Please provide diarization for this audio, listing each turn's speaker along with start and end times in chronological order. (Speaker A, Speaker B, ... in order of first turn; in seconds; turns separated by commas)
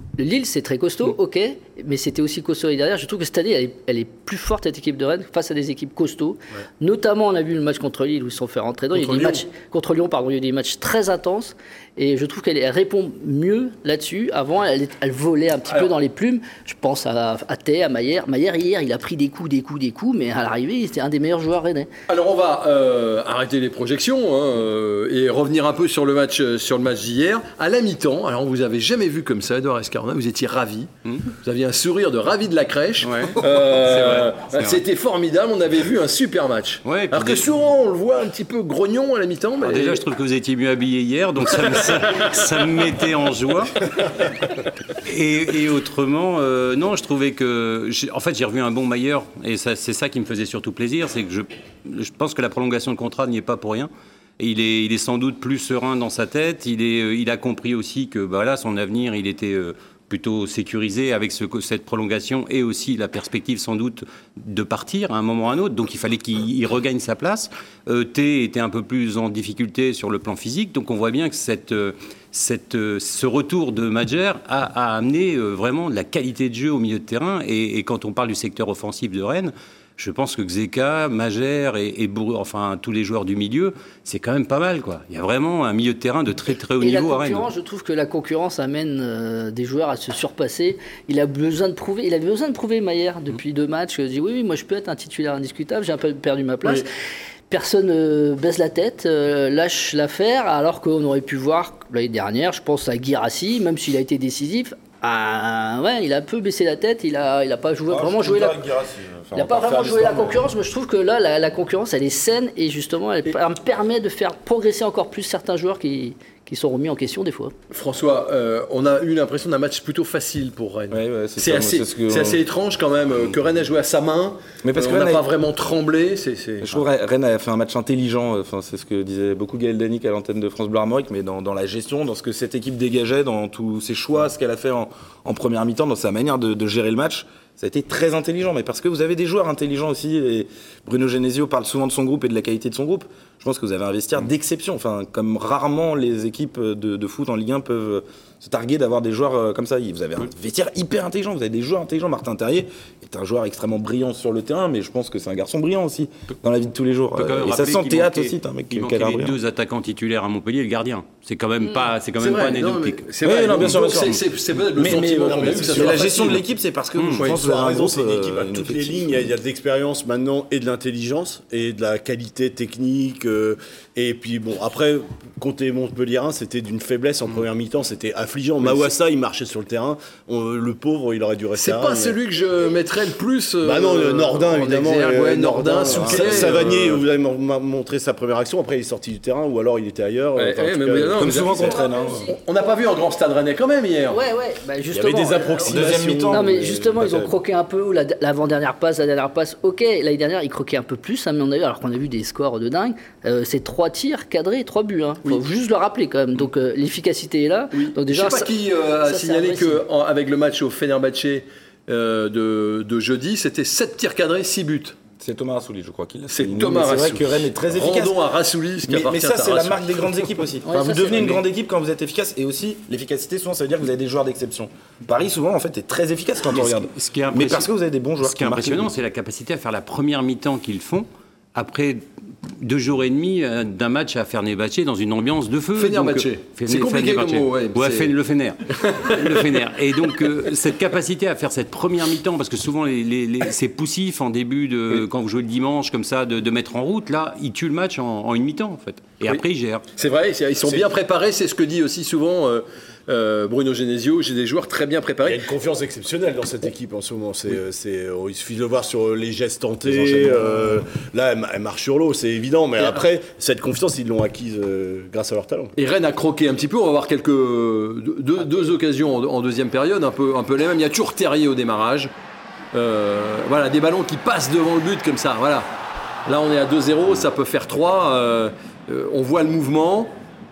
Speaker A: 0.2-21.9, Speaker B: 8.9-9.4, Speaker B: 22.1-30.9, Speaker C: 31.0-31.3, Speaker B: 31.4-40.0, Speaker C: 33.0-34.8, Speaker C: 36.8-37.5, Speaker C: 39.6-44.3, Speaker C: 44.9-87.5, Speaker A: 86.8-96.9, Speaker A: 97.5-108.6, Speaker D: 107.9-110.5, Speaker A: 109.3-117.5, Speaker B: 117.7-126.8, Speaker D: 120.9-122.4, Speaker D: 124.6-125.2, Speaker D: 126.6-159.3, Speaker C: 157.1-164.1, Speaker B: 162.2-166.4, Speaker D: 163.2-169.1, Speaker E: 164.8-166.2, Speaker E: 167.2-182.2, Speaker B: 181.5-187.0, Speaker E: 183.6-191.4, Speaker D: 185.9-186.9, Speaker B: 190.3-191.6, Speaker D: 191.1-192.3, Speaker A: 191.5-192.4, Speaker B: 192.3-194.2, Speaker A: 194.1-208.5, Speaker D: 194.9-197.3, Speaker E: 195.2-196.5, Speaker B: 207.7-215.0, Speaker A: 209.1-209.8, Speaker D: 215.2-218.2, Speaker B: 216.3-220.2, Speaker D: 218.8-228.9, Speaker A: 220.7-221.2, Speaker B: 221.1-221.4, Speaker C: 226.5-227.7, Speaker C: 228.2-249.8, Speaker B: 235.8-238.1, Speaker B: 238.8-240.2, Speaker B: 249.9-255.5, Speaker E: 255.2-265.7, Speaker D: 259.8-260.8, Speaker B: 265.8-272.1, Speaker B: 272.7-275.7, Speaker B: 276.2-280.1